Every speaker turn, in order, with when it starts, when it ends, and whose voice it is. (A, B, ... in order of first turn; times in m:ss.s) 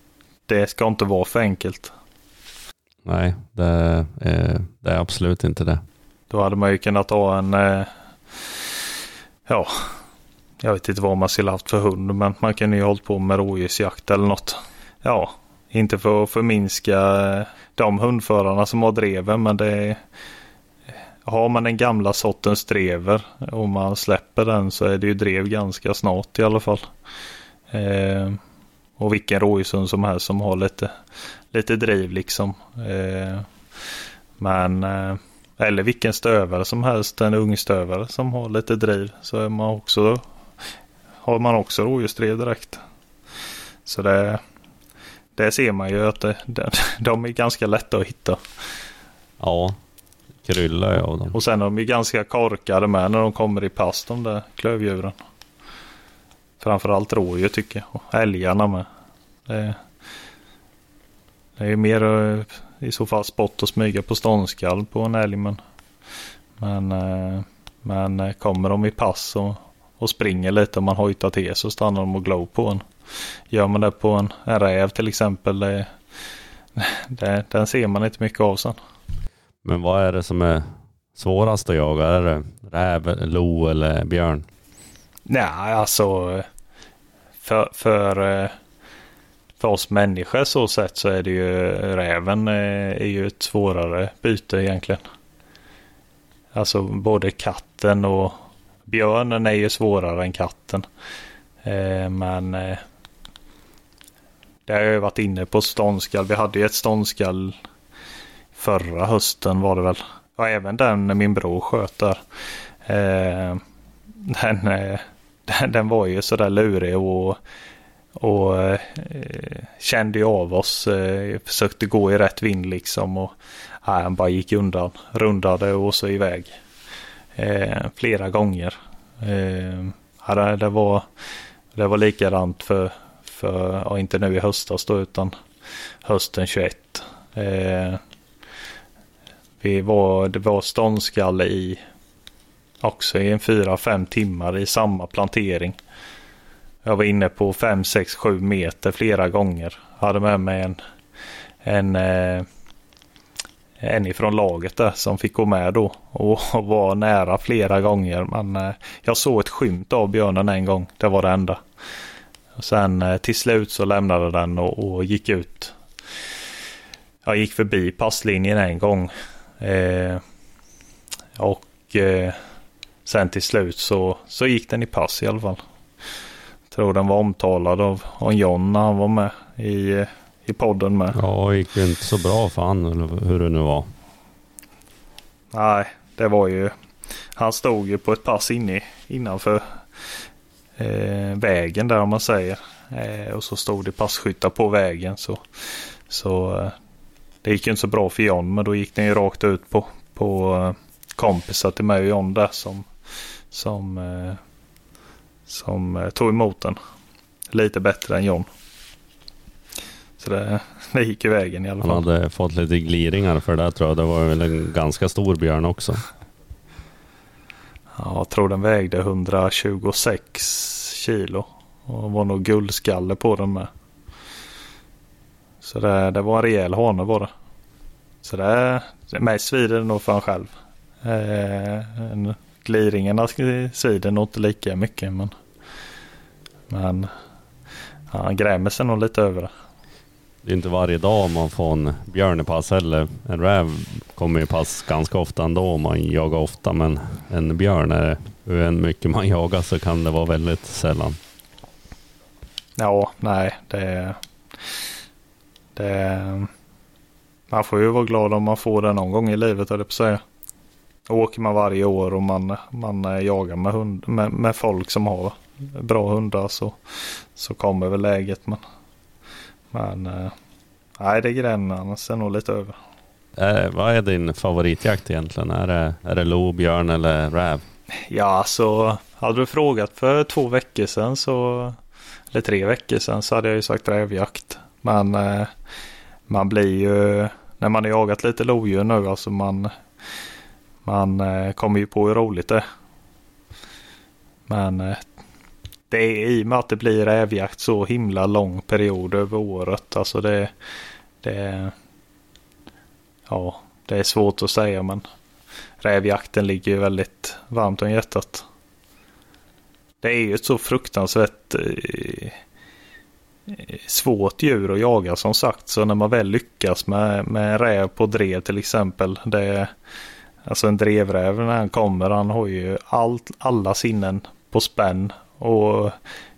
0:00.5-0:01.9 A
0:03.0-0:05.8 B
0:06.3-0:07.9 A
0:09.5-0:09.9 A
0:10.6-0:20.0 A
0:21.2-0:26.8 A
0:27.7-0:28.4 A
0:29.0-0:30.9 A
0:31.5-0:33.5 A
0:34.4-0:40.2 A
0:41.2-0:42.8 A
0:43.8-0:44.4 A
0:45.4-0:48.4 A
0:49.4-0:49.8 B
0:50.4-0:51.3 B
0:51.3-0:55.2 A
0:56.6-0:58.8 A
0:59.5-0:59.8 A
1:01.6-1:05.6 A
1:06.6-1:12.8 A
1:13.5-1:15.9 A
1:16.8-1:18.8 A
1:19.6-1:24.4 B
1:25.3-1:26.5 A
1:27.4-1:28.5 A
1:29.6-1:35.0 A
1:36.5-1:40.8 A
1:41.6-1:42.8 A
1:44.7-1:47.6 A
1:48.5-1:52.2 A
1:52.8-1:53.6 A
1:54.2-1:57.4 A
1:58.2-2:06.5 A
2:07.4-2:11.1 A
2:11.8-2:15.3 A
2:16.0-2:18.0 A
2:19.6-2:21.8 A
2:22.8-2:25.8 A
2:26.8-2:30.8 A
2:31.6-2:32.4 A
2:33.8-2:41.6 A
2:42.6-2:45.7 A
2:47.2-2:50.2 A
2:51.4-2:52.4 A
2:53.0-2:55.6 A
2:56.7-3:01.2 A
3:01.1-3:03.9 B
3:05.5-3:06.7 A
3:07.4-3:09.8 A
3:10.8-3:15.4 A
3:16.1-3:16.7 A
3:17.4-3:22.9 A
3:23.5-3:24.4 A
3:25.5-3:26.8 A
3:27.5-3:28.5 A
3:30.2-3:32.0 A
3:31.8-3:36.0 B
3:38.0-3:43.7 A
3:45.6-3:47.3 A
3:48.2-3:50.5 A
3:51.0-3:55.3 A
3:56.7-3:57.1 A
3:58.1-3:59.5 A
4:00.4-4:11.2 B
4:12.8-4:14.2 A
4:15.8-4:16.5 A
4:17.5-4:20.2 A
4:21.1-4:28.6 A
4:29.7-4:30.3 A
4:31.0-4:32.8 A
4:33.4-4:37.6 B
4:38.1-4:41.8 A
4:42.3-4:45.5 A
4:46.3-4:49.7 A
4:50.8-4:52.6 A
4:54.5-4:55.0 A
4:55.9-5:00.5 A
5:01.2-5:01.7 A
5:03.3-5:05.0 A
5:05.8-5:08.4 A
5:10.0-5:12.4 A
5:13.5-5:19.7 A
5:20.4-5:26.0 A